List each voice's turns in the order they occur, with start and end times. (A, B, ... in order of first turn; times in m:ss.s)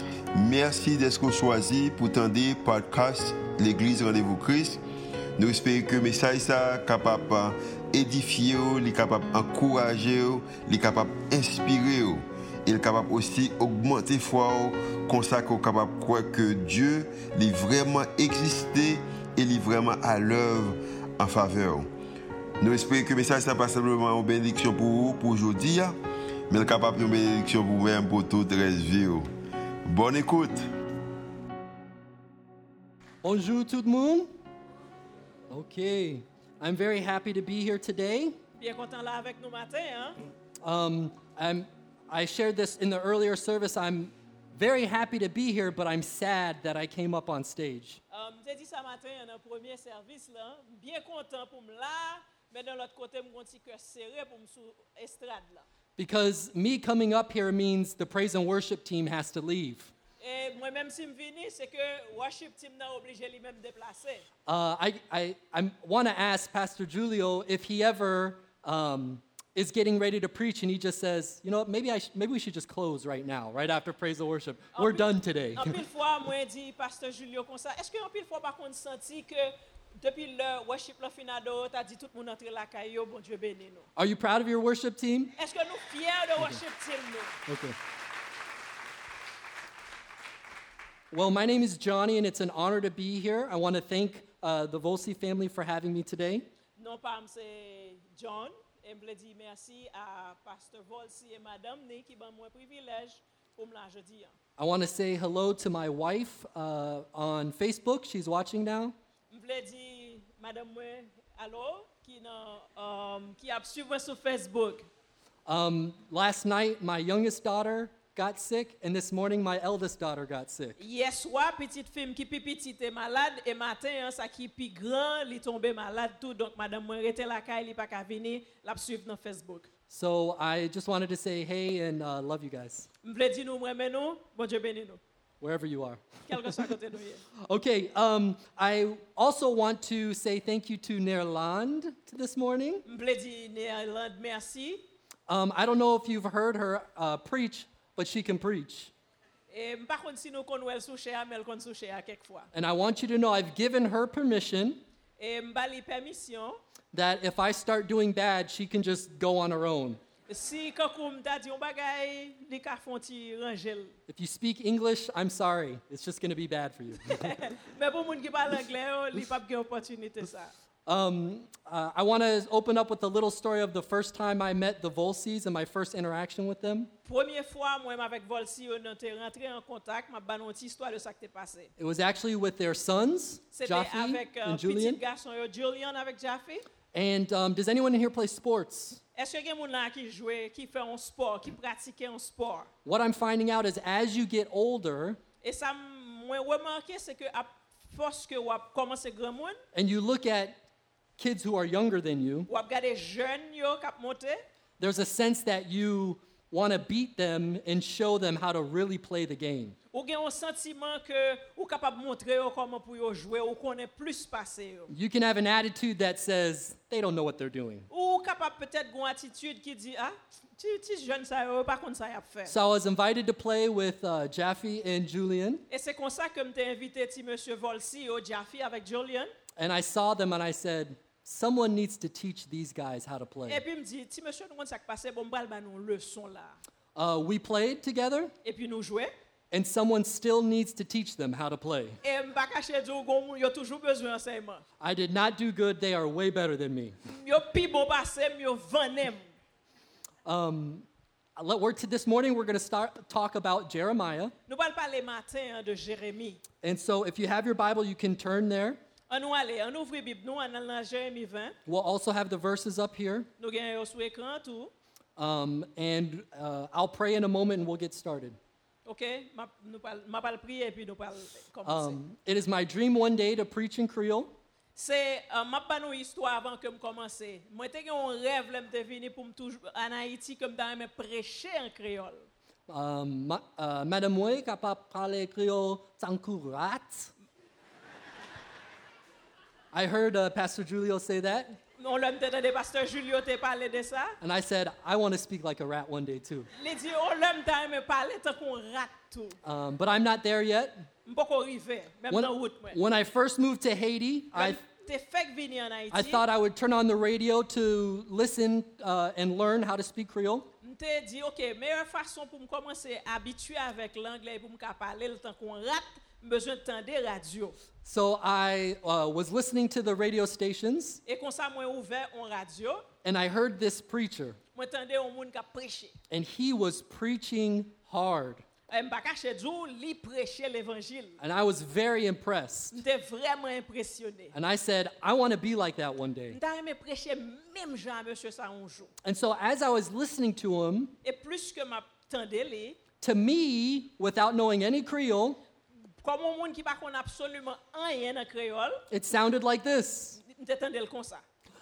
0:00.3-0:04.8 A
0:05.4-0:21.9 A
0:22.6-0:26.0 A
0:26.5-0:29.3 A
0:29.8-0:30.6 A
0:33.2-0:34.3 B
0:35.5-0:38.4 B
0:38.6-0:40.2 C
0:40.6-0:48.0 B
0:48.1-0:55.6 C
0:56.0-0:59.9 B
1:00.2-1:04.2 C
1:04.5-1:15.8 B
1:14.7-1:23.9 C
1:24.0-1:25.3 B
1:25.4-1:27.4 C
1:27.4-1:27.8 B
1:31.1-1:36.5 B
1:36.8-1:44.3 C
1:44.6-1:49.0 B
1:49.3-1:54.9 C
1:55.4-2:00.8 B
2:00.8-2:09.7 C
2:09.9-2:12.9 B
2:13.0-2:15.0 C
2:15.4-2:16.7 B
2:16.3-2:17.2 C
2:17.4-2:22.8 B
2:22.8-2:24.8 C
2:25.3-2:28.9 B
2:29.5-2:32.5 C
2:32.5-2:34.8 B
2:35.2-2:36.6 C
2:36.9-2:40.0 B
2:40.3-2:43.9 C
2:44.1-2:47.3 B
2:47.0-2:50.5 C
2:50.8-2:56.9 B
2:57.0-3:01.7 C
3:01.8-3:05.0 B
3:03.5-3:06.6 C
3:06.9-3:09.0 B
3:09.1-3:12.7 C
3:12.8-3:15.2 B
3:15.4-3:19.6 C
3:19.7-3:20.6 B
3:21.2-3:22.5 B
3:22.5-3:24.4 C
3:24.8-3:29.8 B
3:29.9-3:34.9 C
3:34.9-3:37.9 B
3:37.9-3:42.5 C
3:42.4-3:45.6 B
3:45.7-3:49.3 C
3:49.6-3:53.6 B
3:53.5-3:56.6 C
3:56.9-3:58.3 B
3:58.4-3:59.1 C
3:59.5-4:02.0 B
4:02.0-4:04.6 C
4:04.8-4:06.9 B
4:07.1-4:09.2 C
4:10.2-4:14.3 B
4:14.5-4:16.4 C
4:16.6-4:18.8 B
4:19.1-4:21.6 C
4:21.6-4:23.3 B
4:23.4-4:24.7 C
4:25.2-4:28.4 B
4:28.8-4:32.0 C
4:31.6-4:34.3 B
4:34.8-4:42.3 C
4:42.7-4:47.1 B
4:49.7-4:51.6 B
4:51.8-4:54.2 C
4:54.2-4:56.5 B
4:56.5-4:59.4 C
4:59.4-5:00.9 B
5:01.0-5:02.8 C
5:02.1-5:04.6 B
5:04.3-5:06.2 C
5:05.9-5:10.5 B
5:10.6-5:17.6 C
5:17.8-5:21.0 B
5:21.0-5:22.8 C
5:23.0-5:24.4 B
5:24.5-5:26.0 C
5:26.1-5:28.4 B
5:28.7-5:31.2 C
5:31.2-5:32.8 B
5:32.7-5:34.3 C
5:34.3-5:36.4 B
5:36.3-5:38.9 C
5:39.0-5:40.9 B
5:41.0-5:42.8 C
5:43.0-5:45.4 B
5:46.0-5:48.8 C
5:48.9-5:50.2 B
5:50.2-5:51.2 C